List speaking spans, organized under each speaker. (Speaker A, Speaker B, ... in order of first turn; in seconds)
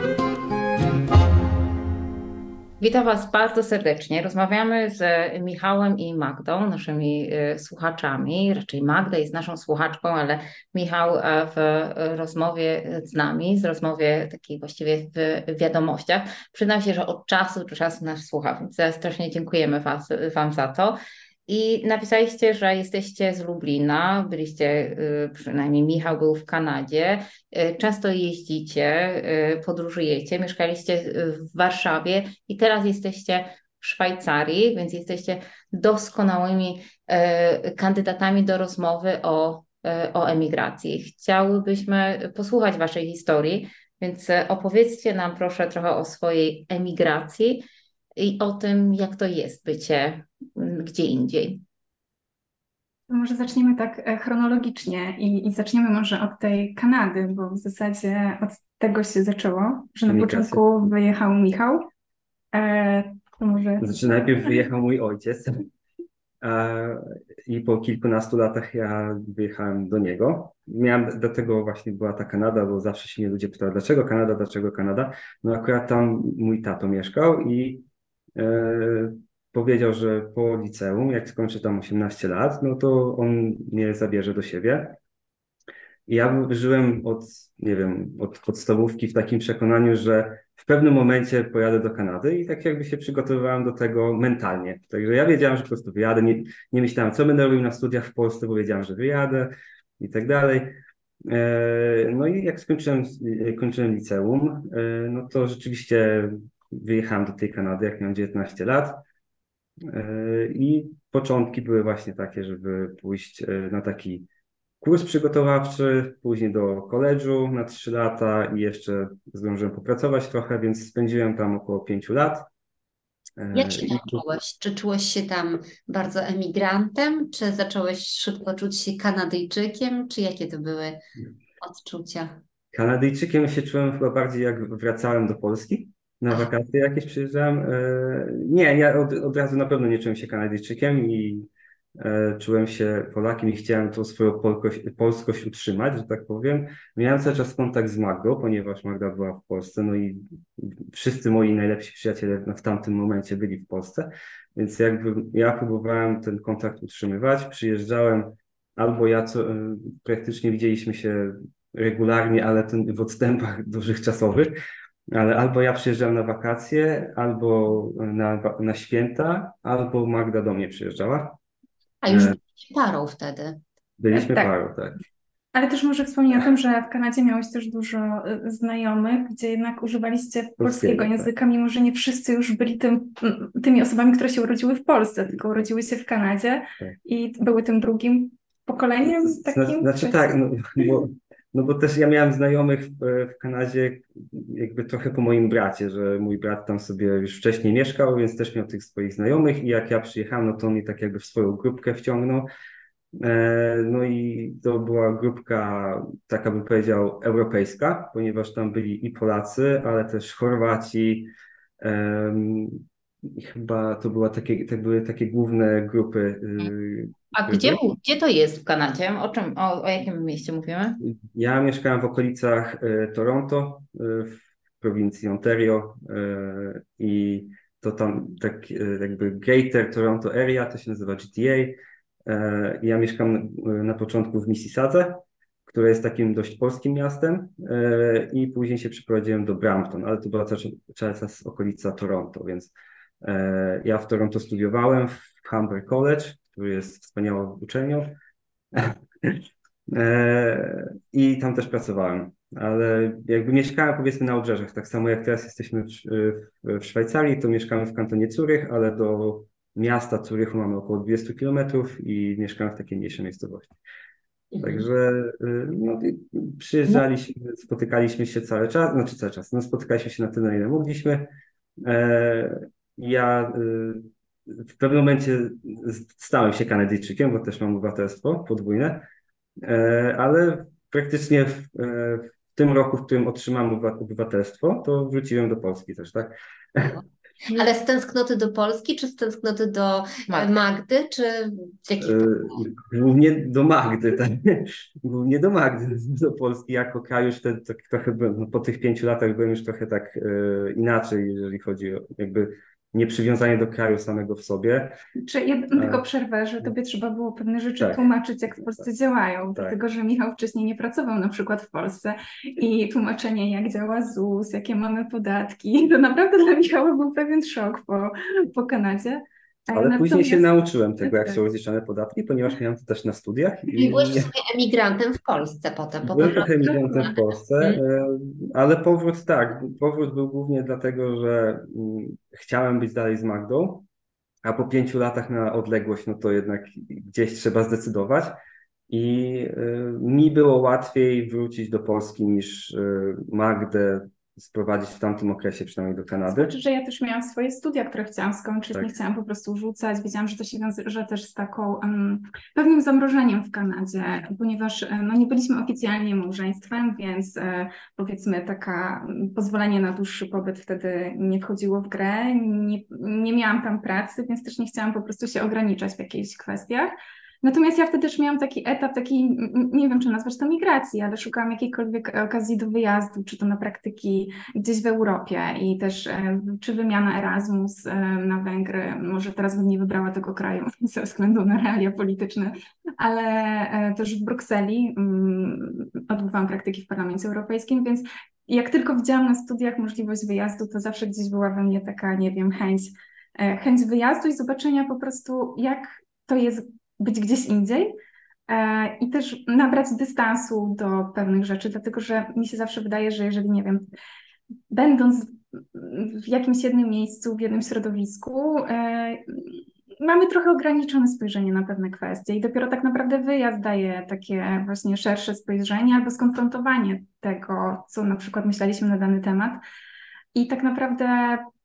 Speaker A: 2.8-47.6, 48.2-51.6, 217.3-221.0, 290.3-290.5
Speaker B: 53.1-61.9, 62.5-64.5, 175.5-190.9, 305.2-320.5, 321.0-321.4, 346.2-397.9, 398.5-403.9, 404.7-419.6, 420.3-421.5
Speaker C: 60.1-60.6, 63.8-65.7, 66.4-85.0, 86.1-100.7, 101.3-109.0, 109.8-114.2, 114.8-122.5, 123.4-124.2, 132.7-164.5, 165.1-171.4, 172.1-172.4, 174.0-175.0, 180.6-181.3, 189.0-202.5, 203.1-217.8, 221.0-248.2, 248.7-263.7, 264.6-279.1, 279.6-286.9, 292.0-305.0, 305.7-306.0, 307.8-308.1, 319.7-324.3, 326.0-333.9, 334.4-338.4, 338.9-346.5
Speaker D: 123.5-131.0, 131.6-132.4, 172.0-173.6, 286.8-292.6, 323.7-327.8